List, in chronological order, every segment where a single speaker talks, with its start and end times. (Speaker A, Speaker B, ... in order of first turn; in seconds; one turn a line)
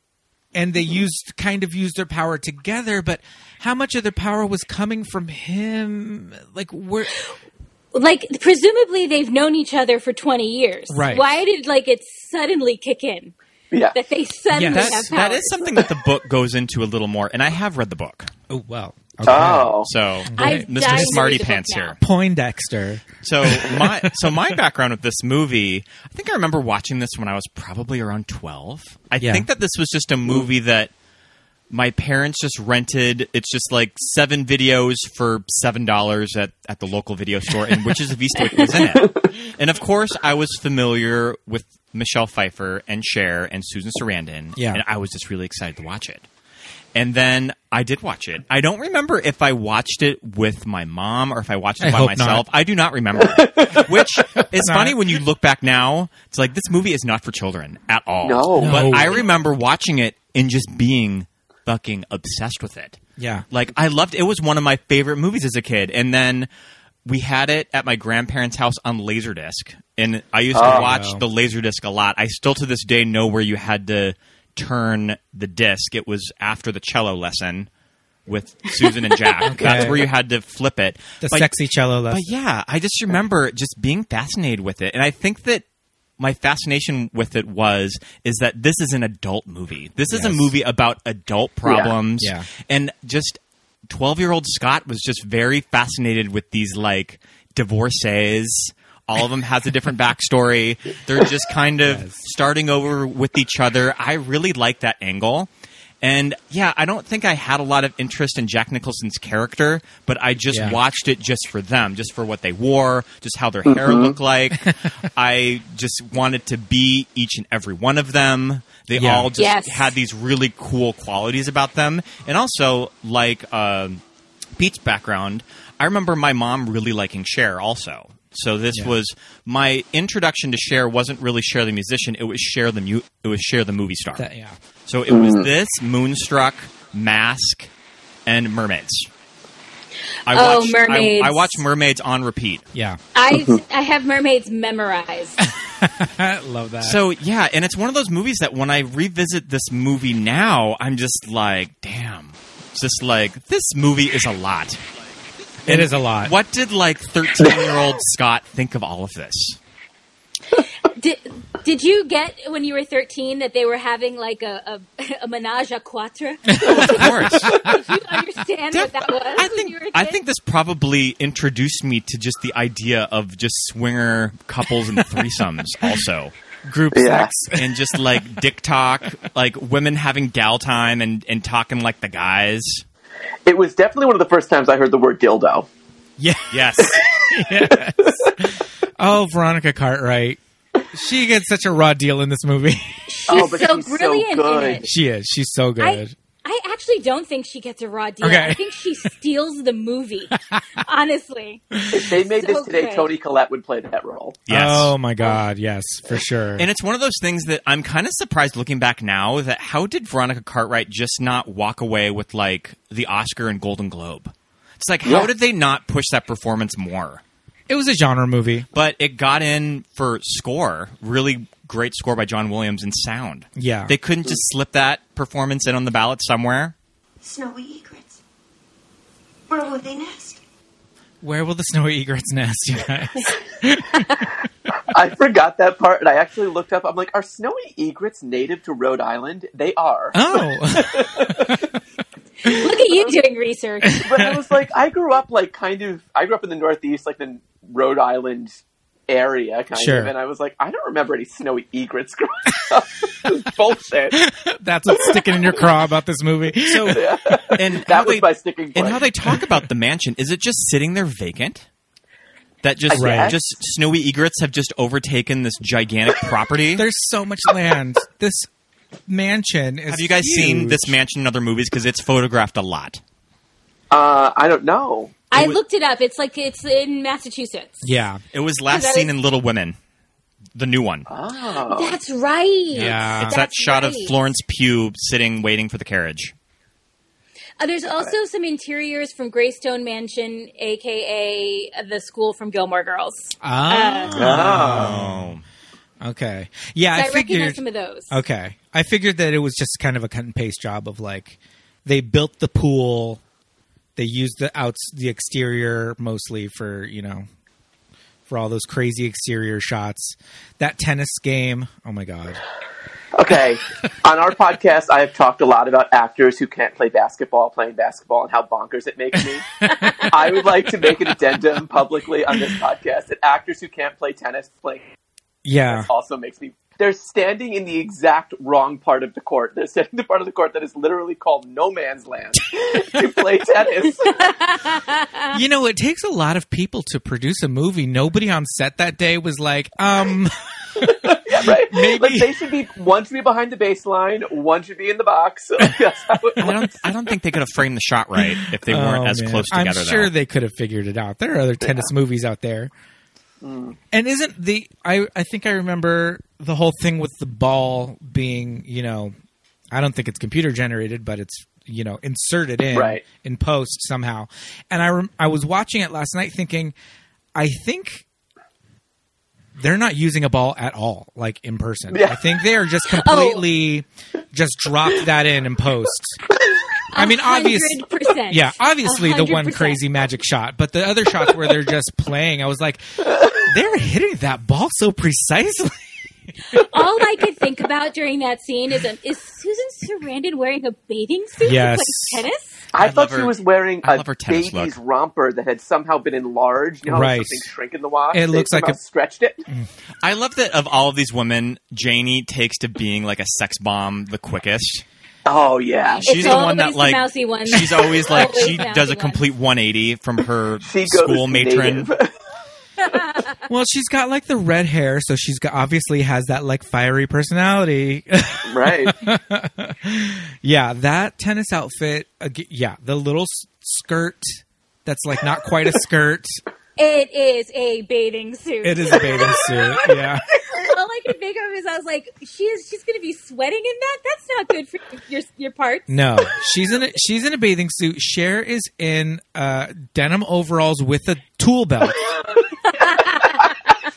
Speaker A: 0.5-7.2
Speaker B: 7.9-13.3
Speaker A: 10.9-11.4
Speaker B: 13.9-15.8
Speaker A: 14.5-15.1
Speaker C: 14.7-18.3
Speaker A: 18.5-21.3
Speaker D: 19.2-19.9
Speaker C: 19.3-22.0
Speaker B: 20.4-22.0
Speaker A: 22.0-24.4
Speaker C: 23.2-30.9
Speaker A: 29.2-29.5
Speaker C: 31.7-46.2
Speaker A: 37.6-37.9
Speaker D: 38.9-39.3
Speaker A: 44.5-44.8
Speaker C: 46.9-63.0
Speaker A: 51.8-52.5
Speaker D: 53.2-54.0
Speaker A: 54.5-55.2
Speaker D: 58.2-59.2
Speaker A: 58.5-59.2
Speaker A: 63.2-63.5
Speaker C: 63.5-66.5
Speaker C: 67.0-77.7
Speaker D: 70.5-70.9
Speaker A: 70.6-71.2
Speaker C: 78.3-81.5
Speaker A: 79.5-80.1
Speaker A: 81.2-82.2
Speaker C: 82.1-85.6
Speaker C: 86.2-105.5
Speaker A: 90.1-90.5
Speaker D: 91.7-91.9
Speaker A: 92.2-92.5
Speaker A: 101.8-102.2
Speaker C: 106.0-124.0
Speaker A: 110.5-110.8
Speaker D: 113.7-114.2
Speaker A: 114.5-114.9
Speaker A: 118.9-119.3
Speaker B: 119.4-120.0
Speaker C: 124.6-134.2
Speaker A: 134.2-134.6
Speaker C: 134.9-137.7
Speaker D: 135.1-135.5
Speaker C: 138.2-139.1
Speaker C: 140.3-142.6
Speaker B: 140.3-141.6
Speaker A: 142.7-143.0
Speaker B: 143.1-145.4
Speaker D: 143.3-143.6
Speaker A: 145.4-147.0
Speaker C: 146.8-154.8
Speaker C: 155.6-159.6
Speaker A: 155.6-156.3
Speaker D: 157.4-157.8
Speaker B: 160.8-170.2
Speaker A: 166.5-167.7
Speaker C: 166.6-167.6
Speaker C: 168.7-176.3
Speaker A: 175.0-175.3
Speaker A: 176.6-178.4
Speaker D: 176.9-177.3
Speaker C: 177.5-182.8
Speaker D: 183.4-185.7
Speaker A: 186.2-190.4
Speaker C: 186.5-187.0
Speaker D: 187.6-188.3
Speaker A: 190.9-193.5
Speaker B: 193.1-194.9
Speaker D: 193.3-194.8
Speaker A: 194.8-196.1
Speaker B: 195.8-201.6
Speaker A: 198.2-198.6
Speaker A: 201.7-202.1
Speaker D: 201.9-204.4
Speaker B: 202.2-203.1
Speaker C: 204.5-204.9
Speaker A: 204.5-206.7
Speaker C: 206.6-217.2
Speaker D: 215.0-215.3
Speaker A: 217.7-218.7
Speaker C: 218.7-226.7
Speaker A: 223.6-223.9
Speaker E: 227.2-228.2
Speaker E: 229.5-230.4
Speaker A: 231.2-234.3
Speaker D: 234.9-241.6
Speaker A: 240.1-241.7
Speaker B: 242.4-244.0
Speaker D: 242.4-243.2
Speaker A: 243.8-244.6
Speaker D: 244.0-254.2
Speaker A: 249.7-250.1
Speaker A: 254.1-257.6
Speaker C: 256.6-261.6
Speaker D: 256.9-259.0
Speaker C: 262.6-266.9
Speaker D: 262.9-263.4
Speaker A: 262.9-263.4
Speaker A: 266.7-268.5
Speaker A: 269.1-271.0
Speaker C: 269.9-273.0
Speaker D: 273.9-275.1
Speaker B: 275.3-277.9
Speaker C: 275.3-275.6
Speaker A: 277.8-278.2
Speaker C: 278.3-279.8
Speaker B: 278.7-279.1
Speaker C: 280.5-281.1
Speaker D: 281.1-282.0
Speaker B: 281.7-284.1
Speaker A: 282.7-283.4
Speaker C: 282.7-286.3
Speaker B: 287.6-294.1
Speaker A: 293.4-295.4
Speaker D: 294.1-294.9
Speaker C: 294.1-295.4
Speaker A: 296.0-303.2
Speaker B: 296.9-298.2
Speaker A: 303.9-307.3
Speaker A: 308.3-312.4
Speaker D: 313.1-324.9
Speaker A: 319.6-320.9
Speaker A: 325.4-325.9
Speaker D: 325.6-334.3
Speaker B: 334.1-335.4
Speaker A: 335.3-342.4
Speaker D: 340.8-346.6
Speaker C: 346.4-350.1
Speaker A: 348.1-352.7
Speaker D: 351.6-351.9
Speaker D: 353.4-353.8
Speaker A: 353.9-359.1
Speaker A: 359.7-366.7
Speaker D: 362.7-363.0
Speaker A: 367.4-368.0
Speaker A: 369.6-376.2
Speaker D: 371.9-372.2
Speaker B: 372.9-373.4
Speaker B: 376.9-379.8
Speaker A: 376.9-386.1
Speaker D: 383.1-383.4
Speaker B: 386.5-392.6
Speaker A: 391.4-392.2
Speaker D: 392.7-399.4
Speaker C: 392.8-394.8
Speaker A: 396.9-397.5
Speaker A: 398.1-398.8
Speaker C: 400.0-404.8
Speaker D: 405.2-406.5
Speaker C: 406.0-411.9
Speaker B: 406.0-409.2
Speaker D: 410.6-412.1
Speaker B: 412.8-413.2
Speaker A: 413.5-426.4
Speaker D: 418.4-419.0
Speaker B: 426.8-435.9
Speaker A: 428.6-430.2
Speaker A: 435.9-442.2
Speaker B: 442.7-443.5